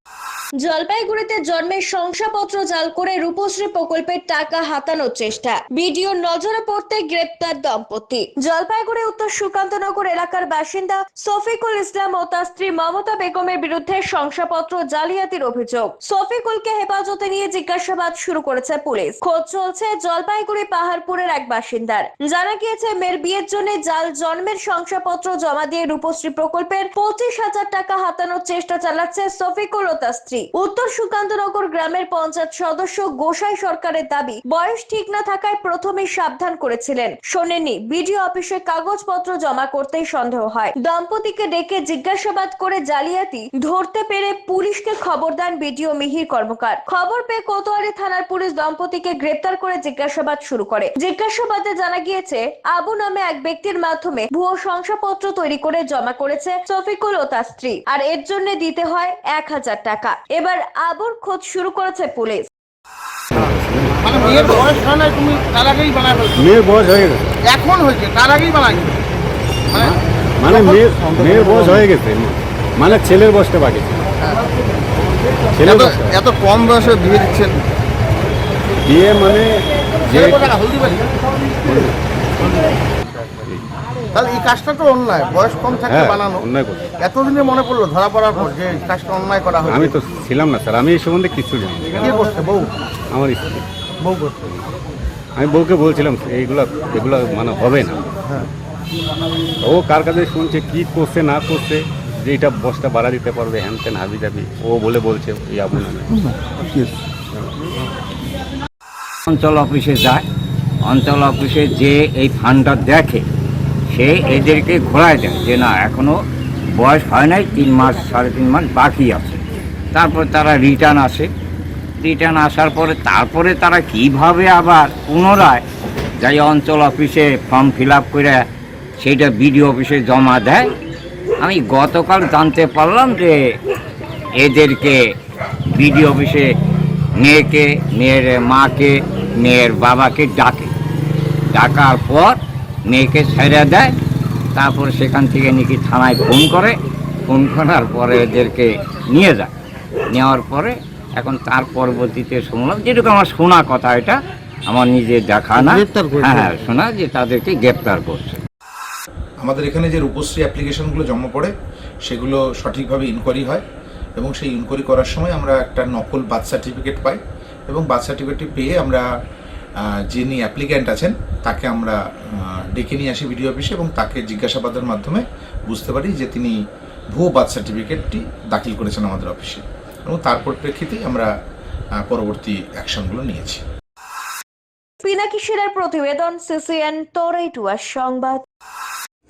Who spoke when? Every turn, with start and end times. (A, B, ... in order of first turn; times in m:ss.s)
0:00.6-1:02.5 A
1:03.3-1:04.2 B
1:04.0-1:06.5 C
1:06.4-1:07.3 B
1:07.4-1:09.0 C
1:09.7-1:10.0 C
1:10.4-1:14.1 B
1:10.5-1:11.8 C
1:15.5-1:16.2 B
1:15.6-1:17.6 C
1:18.8-1:20.4 B
1:20.1-1:21.0 C
1:21.6-1:22.0 B
1:24.1-1:26.4 C
1:25.9-1:26.9 B
1:27.0-1:29.9 C
1:29.6-1:32.2 B
1:32.0-1:32.7 C
1:33.1-1:33.6 B
1:34.0-1:34.5 C
1:35.4-1:38.0 B
1:39.6-1:46.3 B
1:49.3-1:50.2 D
1:50.8-1:53.2 D
1:53.9-1:56.2 D
1:56.7-1:59.4 D
1:59.9-2:01.3 D
2:02.0-2:05.6 D
2:06.2-2:08.4 D
2:09.0-2:10.7 D
2:11.4-2:13.4 D
2:14.4-2:15.0 D
2:15.7-2:16.5 D
2:17.2-2:20.7 D
2:21.5-2:23.9 D
2:24.5-2:26.8 D
2:27.3-2:29.5 D
2:30.1-2:38.4 D
2:39.4-2:41.5 E
2:42.0-2:43.6 E
2:44.2-2:49.0 E
2:50.1-2:52.0 E
2:52.7-2:56.5 E
2:57.1-3:01.3 E
3:02.0-3:03.6 E
3:05.0-3:08.4 A